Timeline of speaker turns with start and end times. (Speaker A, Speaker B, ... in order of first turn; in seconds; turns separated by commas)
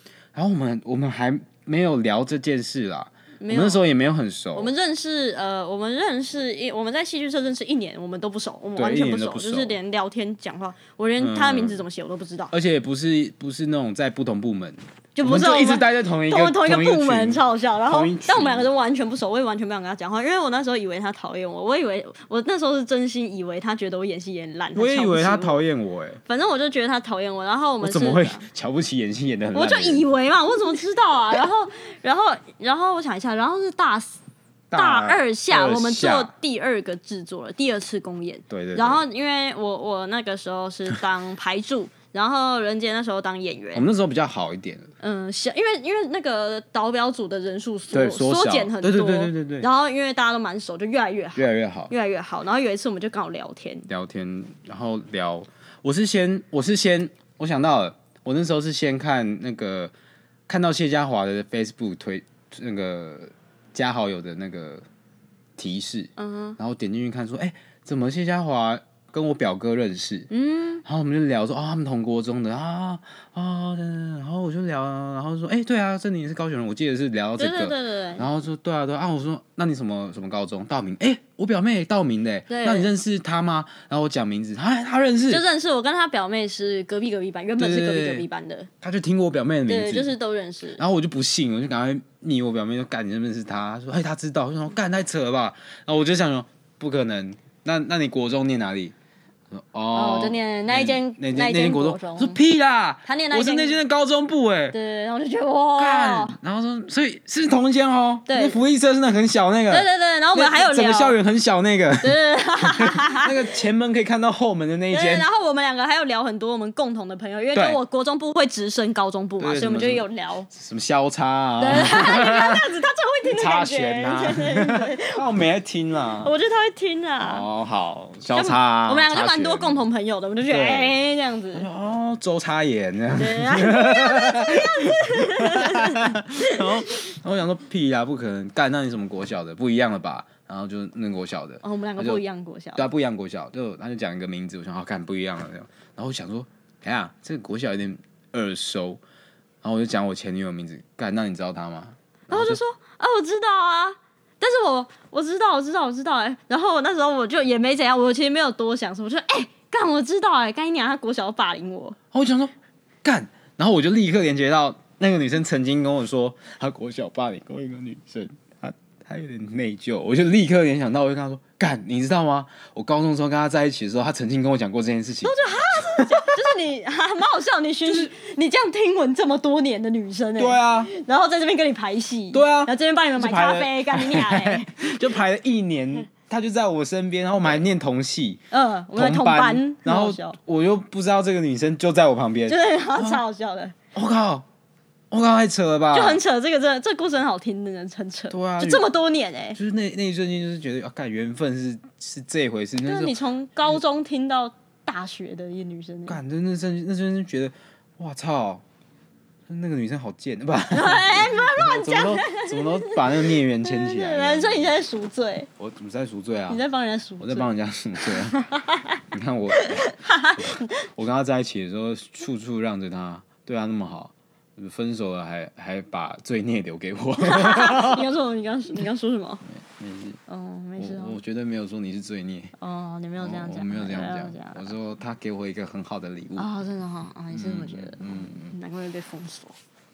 Speaker A: 0.3-4.7, Speaker B: 3.4-3.8, Speaker B: 4.5-12.5, Speaker A: 8.8-9.7, Speaker A: 11.2-11.8, Speaker A: 12.5-18.7, Speaker B: 15.1-25.6, Speaker A: 24.7-26.2, Speaker B: 26.2-28.5, Speaker A: 27.8-30.0, Speaker B: 29.5-34.2, Speaker A: 34.7-36.3, Speaker B: 34.7-43.8, Speaker A: 38.5-39.0, Speaker A: 43.7-44.9, Speaker B: 45.0-53.9, Speaker A: 47.9-49.7, Speaker A: 51.4-51.9, Speaker A: 53.9-59.9, Speaker A: 60.5-64.8, Speaker A: 65.6-70.3, Speaker B: 66.2-66.6, Speaker B: 70.3-70.8, Speaker A: 70.8-85.4, Speaker B: 77.4-78.3, Speaker B: 82.5-82.9, Speaker B: 85.3-88.7, Speaker A: 87.6-88.2, Speaker A: 88.8-90.1, Speaker B: 89.7-90.8, Speaker A: 90.8-98.9, Speaker A: 99.5-104.8, Speaker B: 99.9-102.4, Speaker B: 103.0-103.8, Speaker B: 104.7-106.4, Speaker A: 105.8-115.3, Speaker B: 108.3-108.6, Speaker B: 109.7-111.2, Speaker B: 112.0-113.4, Speaker B: 114.9-120.5, Speaker A: 117.5-117.8, Speaker A: 119.4-122.6, Speaker B: 121.6-125.2, Speaker A: 123.3-126.3, Speaker B: 126.2-127.5, Speaker A: 127.2-129.8, Speaker B: 128.3-131.7, Speaker A: 130.5-130.9, Speaker A: 131.5-142.2, Speaker B: 133.2-137.0, Speaker B: 141.6-142.9, Speaker A: 142.8-149.0, Speaker A: 149.6-152.6, Speaker B: 152.3-162.0, Speaker A: 162.1-162.5, Speaker A: 163.0-176.3, Speaker B: 175.2-185.0, Speaker A: 177.8-178.1, Speaker A: 180.4-180.9, Speaker A: 182.3-188.4, Speaker B: 188.5-190.4, Speaker A: 188.9-193.2, Speaker B: 192.5-193.7, Speaker A: 193.9-194.4, Speaker A: 195.1-196.2, Speaker B: 195.9-199.6, Speaker A: 198.3-198.8, Speaker A: 199.5-203.1, Speaker B: 202.8-206.2, Speaker A: 206.1-208.6, Speaker A: 209.5-214.7, Speaker B: 210.7-215.5, Speaker A: 215.6-216.6, Speaker B: 216.5-217.5, Speaker A: 217.2-218.4, Speaker B: 218.0-219.0, Speaker A: 219.1-228.1, Speaker B: 219.5-220.7, Speaker B: 227.2-229.4, Speaker A: 229.6-230.2, Speaker B: 230.3-231.2, Speaker A: 230.8-232.5, Speaker B: 232.6-234.7, Speaker A: 233.2-236.5, Speaker B: 236.3-239.6, Speaker A: 237.3-238.5